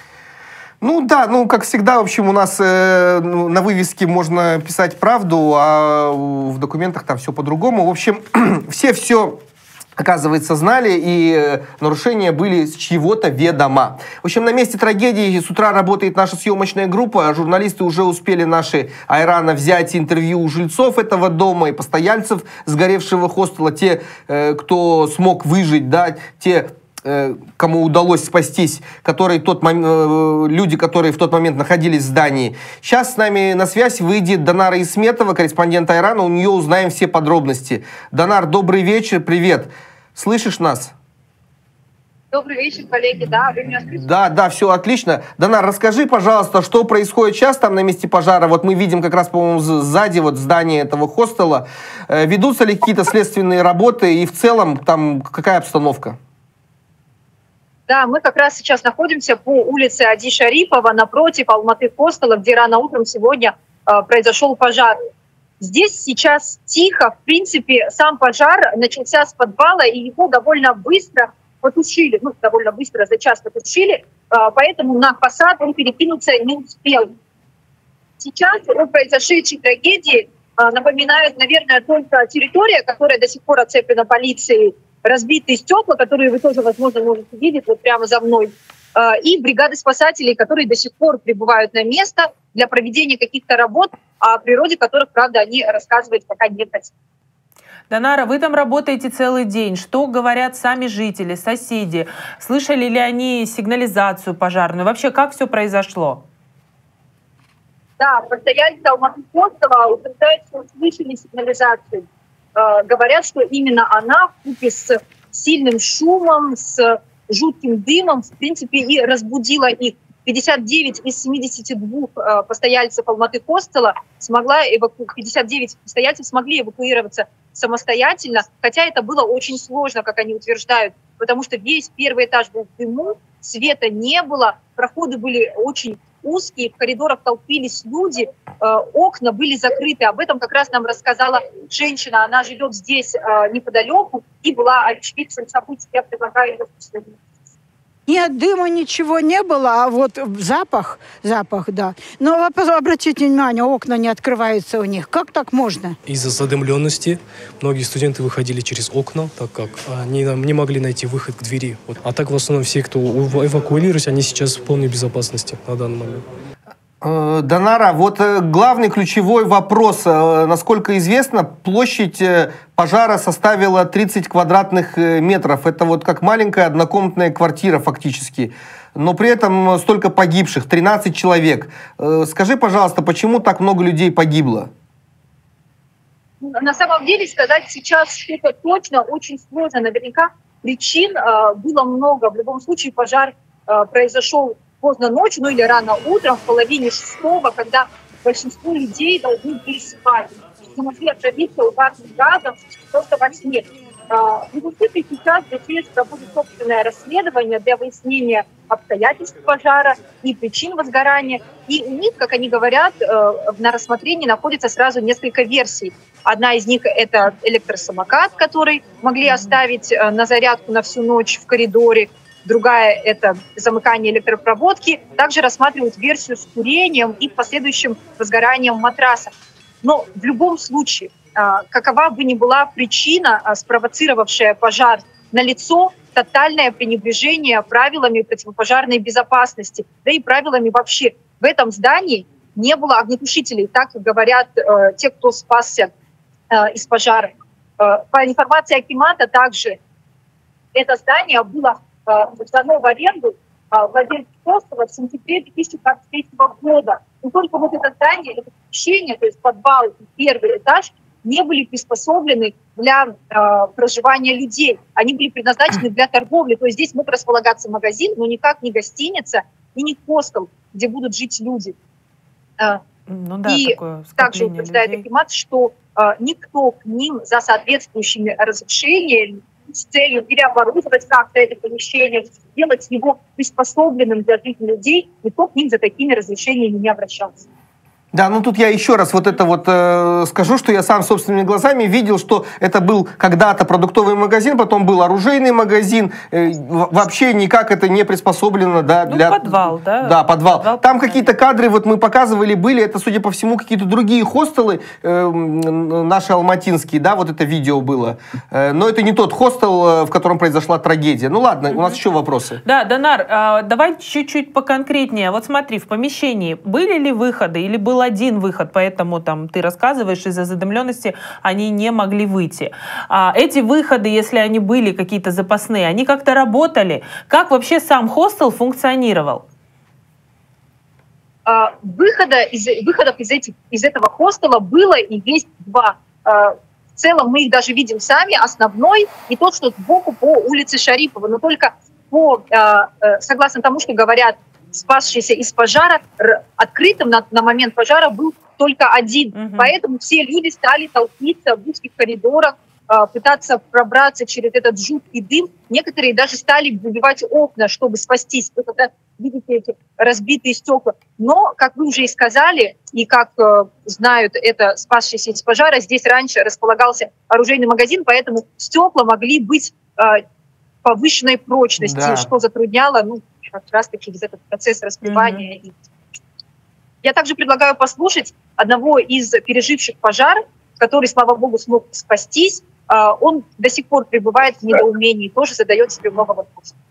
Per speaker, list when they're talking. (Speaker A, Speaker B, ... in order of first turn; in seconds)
Speaker A: 0.8-9.4, 10.0-40.9, 43.9-56.2, 167.0-184.7, 288.1-312.6, 371.8-372.3
Speaker B: 42.3-44.0, 57.9-65.0, 65.6-77.1, 78.2-96.9, 108.0-147.2, 186.4-229.3, 229.8-245.9, 246.5-249.8, 250.7-271.7, 273.4-287.4, 331.4-370.2, 370.8-375.8, 377.0-386.7
Speaker C: 97.9-106.2, 273.1-275.0, 299.1-301.3, 312.6-329.4, 349.3-349.7, 375.0-375.4
Speaker D: 148.1-156.0
Speaker E: 156.1-166.2